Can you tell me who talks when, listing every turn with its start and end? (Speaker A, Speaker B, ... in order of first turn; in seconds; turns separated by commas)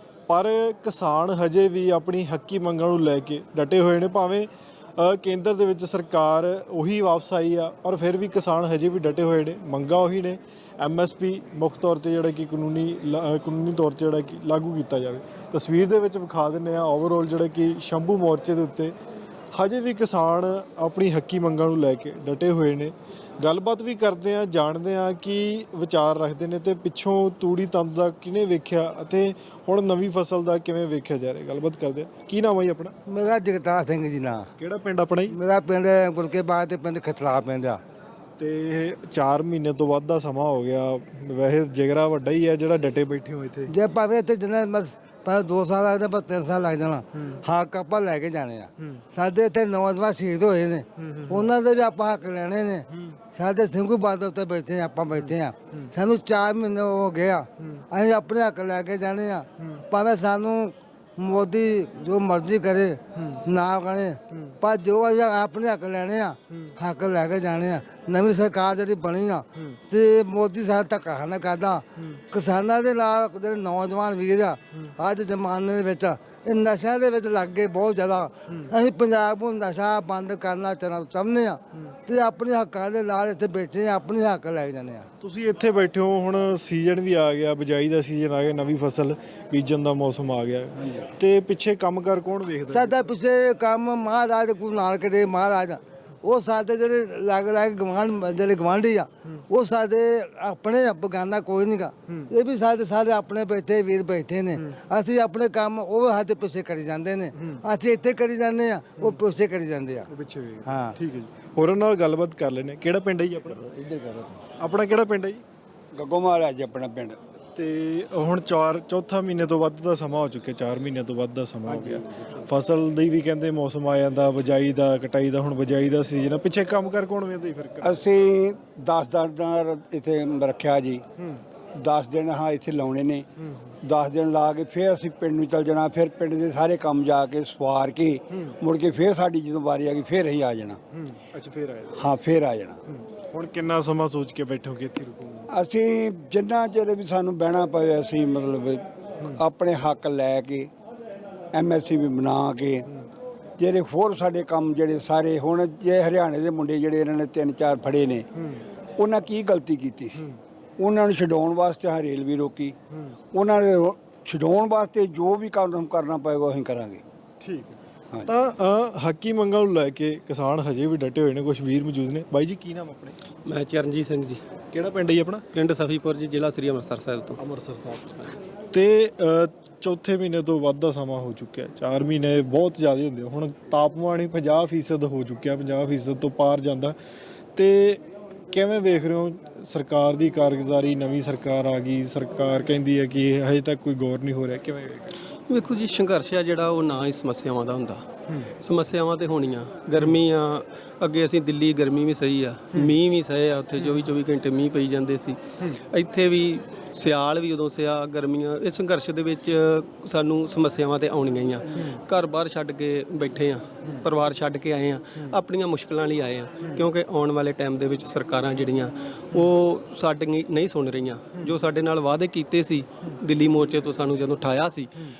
Speaker A: 0.3-4.5, Speaker A: 5.0-18.9, Speaker A: 19.5-32.9, Speaker B: 33.1-34.5, Speaker A: 34.6-35.4, Speaker B: 35.3-37.8, Speaker A: 38.4-43.7, Speaker B: 43.7-85.0, Speaker A: 51.0-51.5, Speaker A: 52.9-53.2, Speaker A: 63.1-63.4, Speaker A: 85.2-93.0, Speaker B: 92.7-110.1, Speaker A: 107.3-107.6, Speaker A: 110.1-113.6, Speaker B: 110.7-110.9, Speaker C: 113.7-114.4, Speaker A: 114.6-115.4, Speaker C: 115.9-117.2, Speaker A: 117.5-128.0, Speaker C: 121.7-122.4, Speaker C: 127.8-131.0, Speaker A: 131.2-131.4, Speaker C: 131.8-133.2, Speaker A: 133.4-133.7, Speaker C: 133.8-140.8, Speaker A: 138.3-138.6, Speaker A: 140.9-142.1, Speaker C: 141.9-142.8, Speaker A: 142.9-145.5, Speaker C: 145.5-150.7, Speaker C: 151.5-152.8, Speaker C: 153.6-158.2, Speaker A: 158.3-158.7, Speaker C: 159.0-160.2, Speaker C: 160.8-162.8, Speaker C: 163.3-167.0, Speaker A: 167.4-173.2, Speaker D: 173.4-174.4, Speaker A: 174.7-175.4, Speaker D: 175.5-177.4, Speaker A: 177.4-178.2, Speaker A: 178.7-186.9, Speaker A: 187.6-195.1, Speaker D: 195.5-198.0, Speaker D: 198.6-224.9